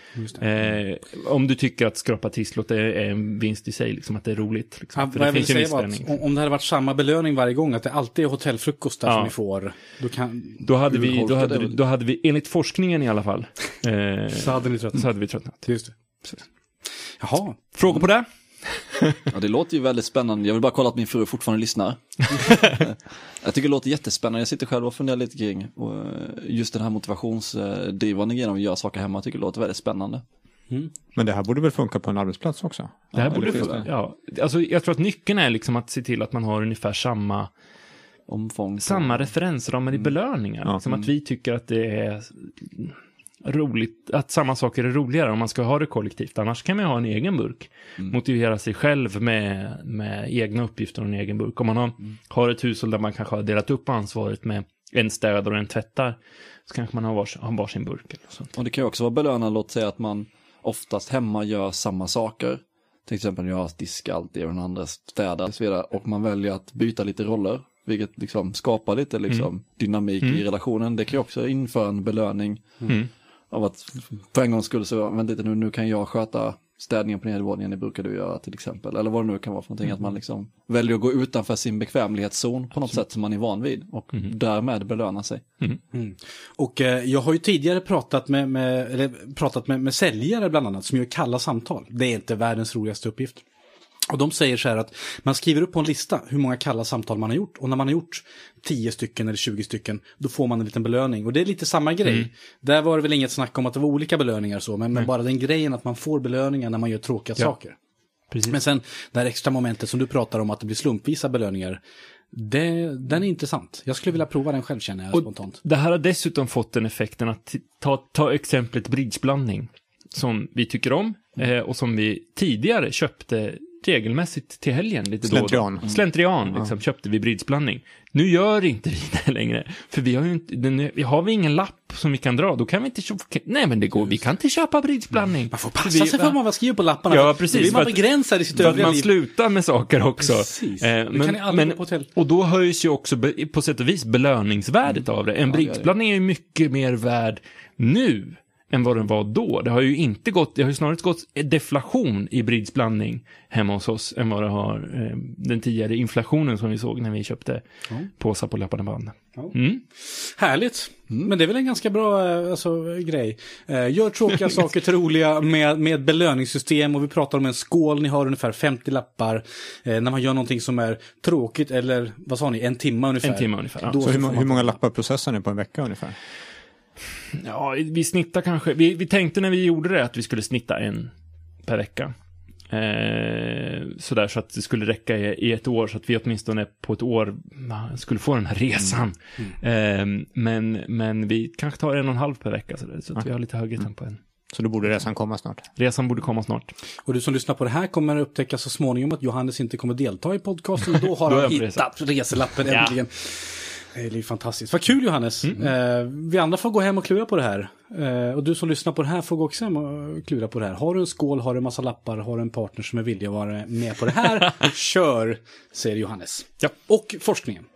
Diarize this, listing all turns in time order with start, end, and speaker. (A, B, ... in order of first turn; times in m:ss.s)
0:00.2-0:00.4 A
0:00.4-0:06.2 B
0:05.0-0:10.7 A
0:09.0-0:09.3 B
0:10.6-0:15.7 B
0:10.9-0:11.8 C
0:14.3-0:15.1 A
0:15.6-0:16.0 A
0:17.2-0:17.7 A
0:17.7-0:19.2 B
0:19.3-0:30.2 C
0:22.4-0:22.7 B
0:31.2-0:33.9 D
0:33.1-0:33.8 C
0:33.2-0:37.5 B
0:38.3-0:39.3 C
0:38.8-0:58.5 B
0:58.6-1:12.8 C
1:13.5-1:25.4 C
1:25.9-1:33.4 A
1:34.1-1:47.8 A
1:48.3-1:48.6 B
1:48.5-1:51.8 A
1:52.3-1:55.6 A
1:55.1-2:16.4 B
2:05.3-2:05.9 D
2:15.5-2:19.1 A
2:17.1-2:37.6 B
2:20.2-2:22.1 A
2:25.5-2:25.8 C
2:38.2-2:39.8 B
2:39.4-2:54.8 A
2:53.2-2:54.0 B
2:54.0-2:56.2 D
2:57.4-3:01.1 B
3:01.6-3:02.1 B
3:02.7-3:14.2 B
3:14.5-3:15.6 D
3:15.8-3:16.7 B
3:17.0-3:37.6 A
3:21.0-3:21.9 B
3:22.6-3:22.9 B